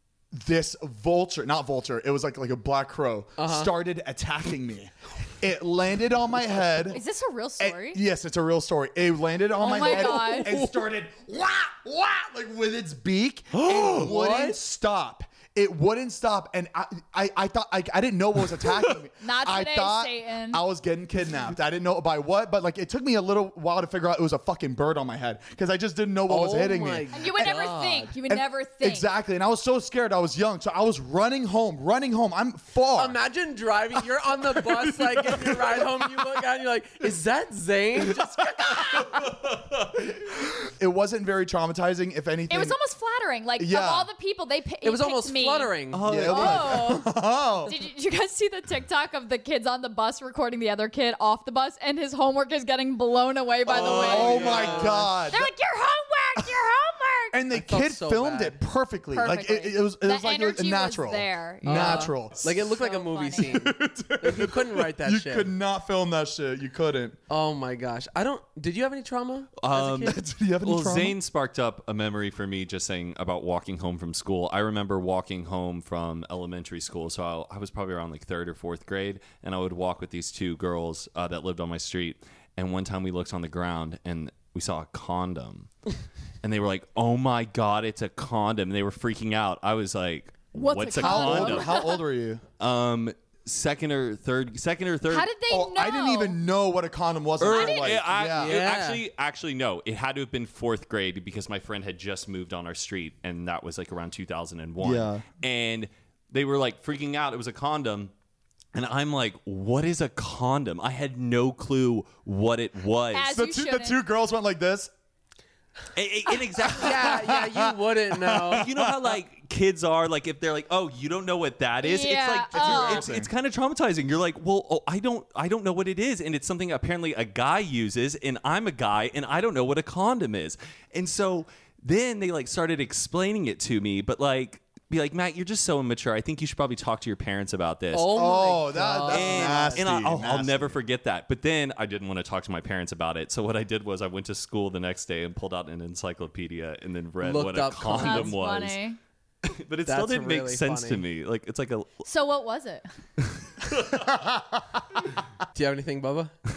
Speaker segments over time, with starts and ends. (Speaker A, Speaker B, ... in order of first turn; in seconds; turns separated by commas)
Speaker A: 0.3-7.0, Speaker B: 3.4-3.7, Speaker C: 6.9-8.0, Speaker A: 7.6-33.2, Speaker C: 9.6-10.6, Speaker B: 9.7-10.8, Speaker D: 13.5-14.1, Speaker B: 13.9-14.6, Speaker C: 19.2-20.6, Speaker B: 26.3-28.1, Speaker C: 27.1-29.1, Speaker B: 33.0-39.1, Speaker A: 34.9-35.8, Speaker A: 38.2-39.2, Speaker D: 39.4-39.7, Speaker A: 40.0-42.8, Speaker C: 42.5-45.8, Speaker A: 43.6-44.1, Speaker B: 44.8-46.1, Speaker D: 45.9-46.9, Speaker A: 46.0-47.7, Speaker C: 46.3-47.1, Speaker C: 47.6-57.4, Speaker D: 53.7-54.7, Speaker B: 53.7-55.1, Speaker A: 53.8-55.5, Speaker A: 57.3-62.7, Speaker B: 57.5-58.6, Speaker C: 59.1-63.6, Speaker B: 61.6-65.5, Speaker A: 63.4-67.2, Speaker B: 67.3-70.2, Speaker D: 69.6-85.7, Speaker A: 70.0-71.2, Speaker D: 86.4-91.8, Speaker C: 90.5-92.0, Speaker A: 91.0-92.4, Speaker D: 92.6-95.3, Speaker C: 95.1-96.4, Speaker A: 95.5-98.6, Speaker D: 97.4-108.1, Speaker C: 97.5-97.9, Speaker B: 98.3-99.0, Speaker A: 104.8-105.2, Speaker D: 108.7-113.3, Speaker C: 113.1-114.0, Speaker A: 113.3-114.9, Speaker D: 116.0-117.3, Speaker B: 116.8-118.7, Speaker A: 116.8-119.2, Speaker D: 118.5-138.3, Speaker C: 121.8-123.1, Speaker A: 122.5-123.3, Speaker B: 137.9-139.8, Speaker A: 138.1-140.8, Speaker D: 139.1-148.8, Speaker B: 147.2-148.3, Speaker C: 147.9-149.0, Speaker D: 149.4-152.0, Speaker B: 149.9-151.1, Speaker C: 152.1-152.9, Speaker D: 153.2-154.1, Speaker A: 153.9-154.8, Speaker B: 155.5-156.3